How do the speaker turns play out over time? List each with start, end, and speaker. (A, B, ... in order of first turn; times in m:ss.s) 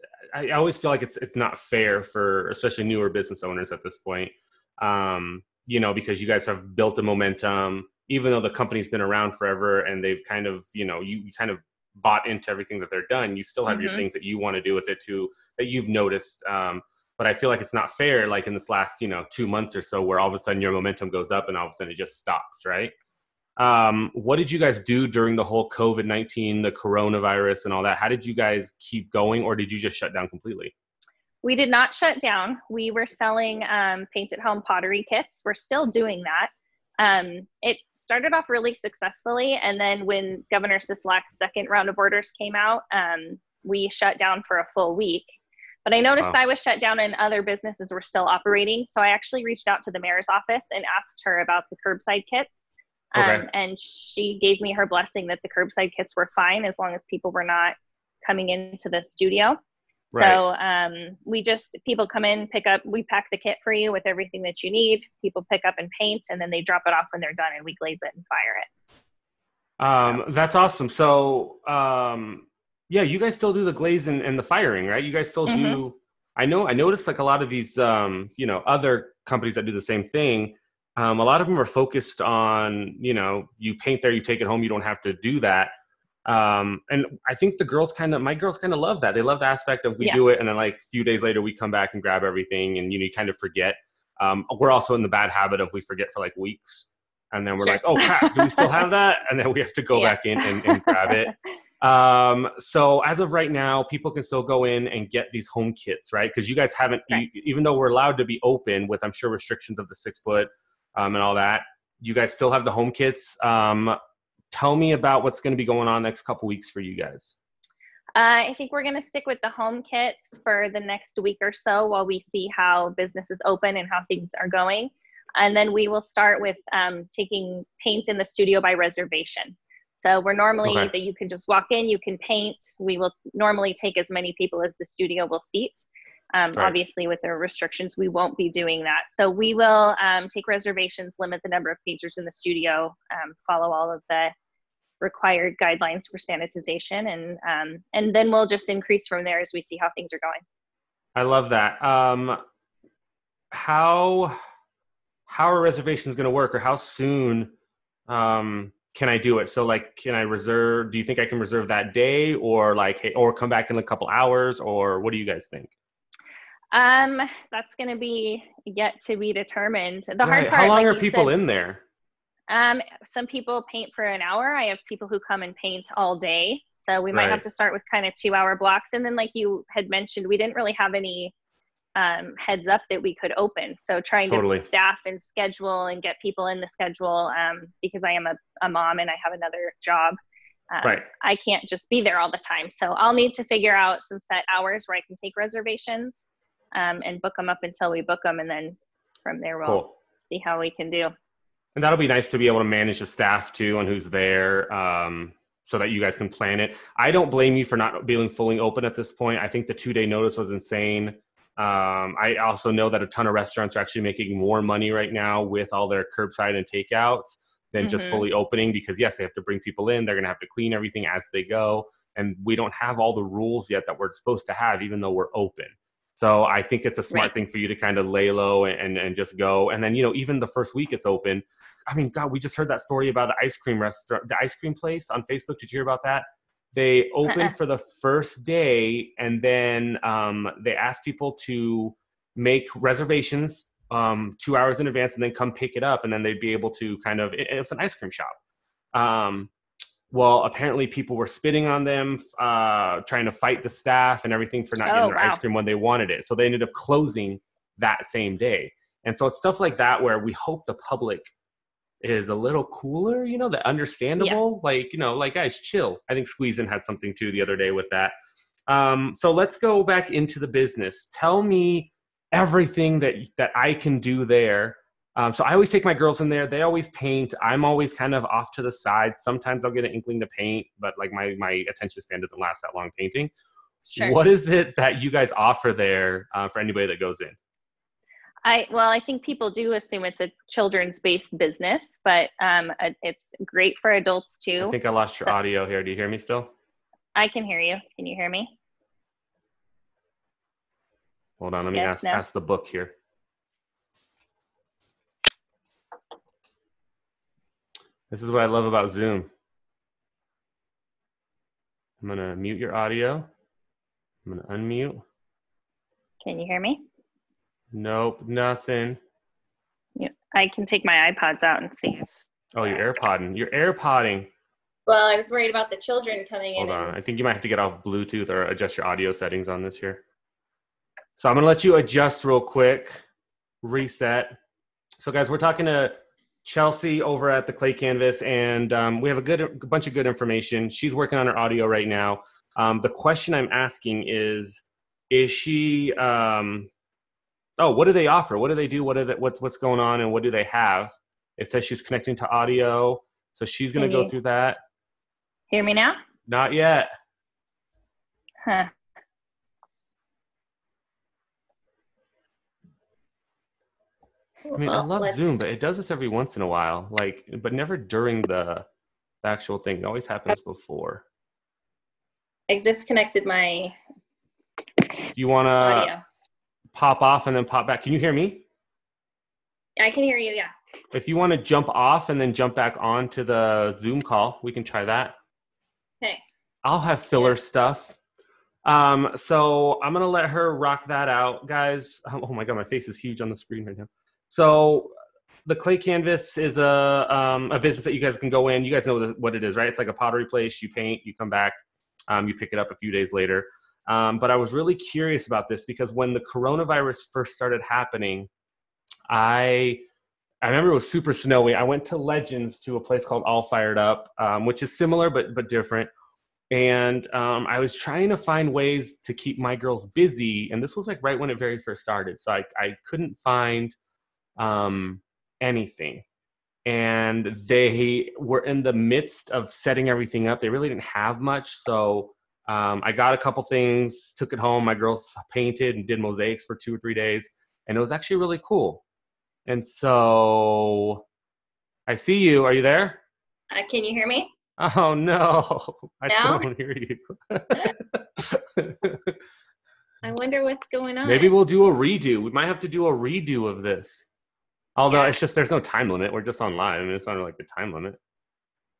0:00.3-0:22.9 A
0:13.7-0:14.0 B
0:23.6-0:30.7 A
0:31.4-0:59.6 B
0:53.2-0:53.5 A
1:00.1-1:00.4 A
1:00.1-1:08.7 B
1:09.8-1:25.7 A
1:15.5-1:15.8 B
1:26.2-1:54.0 A
1:37.6-1:38.7 B
1:40.0-1:41.2 B
1:54.5-1:57.4 A
1:58.2-2:24.3 B
2:10.6-2:10.9 A
2:25.0-2:30.4 B
2:31.2-2:32.4 A
2:33.5-2:34.4 A
2:35.3-2:37.5 A
2:38.1-2:45.7 A
2:46.7-2:51.3 B
2:50.2-2:51.8 A
2:52.5-3:01.3 B
2:57.1-2:57.4 A
3:02.0-3:10.2 B
3:04.3-3:04.7 A
3:10.7-3:21.1 B
3:19.6-3:19.9 A
3:21.8-4:08.4 A
3:37.8-3:38.2 B
3:57.3-3:57.5 B
4:08.9-4:09.5 A
4:10.1-4:21.3 A
4:14.9-4:15.4 B
4:22.0-4:28.1 A
4:28.7-4:43.3 A
4:43.9-4:44.2 B
4:44.0-4:47.4 A
4:48.4-4:54.8 B
4:54.6-4:56.5 A
4:57.2-4:58.6 B
5:01.4-5:02.9 A
5:01.7-5:02.2 B
5:08.1-5:09.3 A
5:12.0-5:13.3 A
5:14.3-5:15.0 A
5:16.2-5:16.8 B
5:17.7-5:19.0 A
5:20.0-5:22.1 B
5:22.5-5:24.3 A
5:24.9-5:27.0 B
5:26.6-5:30.0 A
5:31.2-5:33.0 A
5:33.6-5:34.4 A
5:35.0-5:46.7 A
5:47.6-5:54.6 A
5:53.8-5:54.1 B
5:55.5-5:56.0 B
5:56.3-5:56.9 A
5:58.4-5:58.7 B
6:04.5-6:05.4 B
6:04.6-6:08.7 A
6:09.2-6:11.0 A
6:12.5-6:13.8 B
6:15.2-6:15.9 A
6:15.6-6:16.0 B
6:16.8-6:18.4 A
6:19.8-6:20.5 B
6:20.9-6:25.2 A
6:26.6-6:28.0 A
6:28.6-6:34.9 A
6:35.5-6:48.3 A
6:49.1-6:49.8 A
6:50.4-6:55.9 A
6:56.5-7:03.8 A
7:04.4-7:06.0 A
7:06.7-7:18.8 A
7:19.5-7:21.0 A
7:21.9-7:23.0 A
7:23.5-7:24.3 B
7:24.6-7:29.2 A
7:26.1-7:26.5 B
7:30.0-7:31.3 B
7:31.0-7:34.1 A
7:34.8-7:38.0 A
7:34.9-7:35.2 B